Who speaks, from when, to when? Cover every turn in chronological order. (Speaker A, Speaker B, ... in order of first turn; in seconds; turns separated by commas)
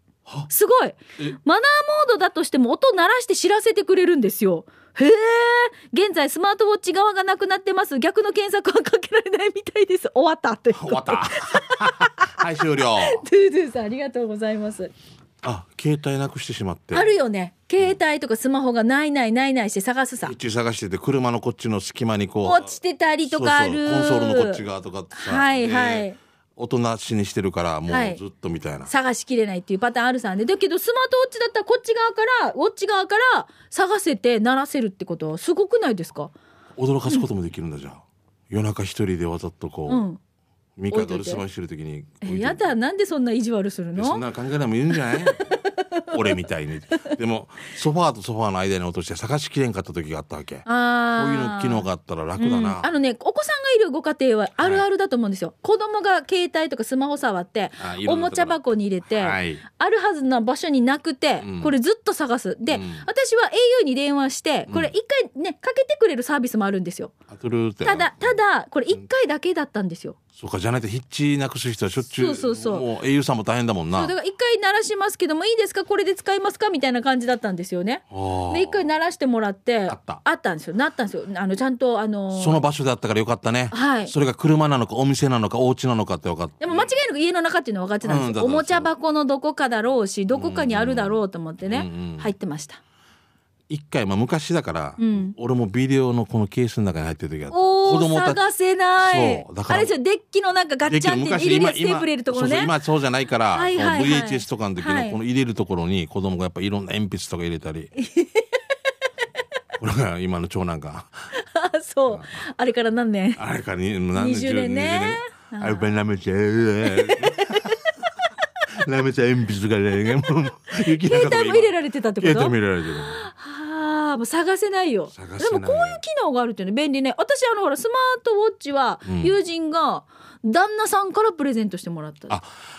Speaker A: 0.5-12.4, Speaker B: 10.8-13.2, Speaker A: 13.0-14.9, Speaker B: 15.4-17.1, Speaker A: 16.9-20.3, Speaker B: 20.2-22.7, Speaker A: 22.4-26.2, Speaker B: 23.3-28.9, Speaker A: 27.9-28.2, Speaker A: 28.9-36.3, Speaker B: 36.8-40.0, Speaker A: 39.9-40.2, Speaker B: 40.8-42.7, Speaker A: 40.9-41.4, Speaker A: 42.2-44.2, Speaker B: 43.9-45.5, Speaker A: 44.9-46.2, Speaker B: 46.1-52.9, Speaker A: 50.6-51.9, Speaker A: 52.4-67.1, Speaker B: 57.8-58.6, Speaker B: 59.1-59.6, Speaker B: 61.4-61.7, Speaker B: 62.7-63.1, Speaker B: 67.3-68.4, Speaker A: 67.8-70.2, Speaker B: 70.4-74.1, Speaker A: 72.1-72.9, Speaker A: 73.9-82.6, Speaker B: 78.1-78.8, Speaker B: 79.9-80.2, Speaker B: 82.3-86.9, Speaker A: 83.7-84.1, Speaker A: 86.6-92.8, Speaker B: 88.0-88.9, Speaker B: 90.3-92.3, Speaker B: 93.7-98.4, Speaker A: 95.0-95.3, Speaker A: 97.5-102.7, Speaker B: 99.0-99.9, Speaker B: 100.8-107.9, Speaker A: 103.5-105.2, Speaker A: 108.0-108.5, Speaker B: 109.8-111.1, Speaker A: 111.3-113.4, Speaker B: 113.4-117.7, Speaker A: 114.1-115.9, Speaker A: 116.8-117.8, Speaker B: 118.8-123.3, Speaker A: 120.7-132.3, Speaker B: 125.1-126.0, Speaker B: 129.0-129.3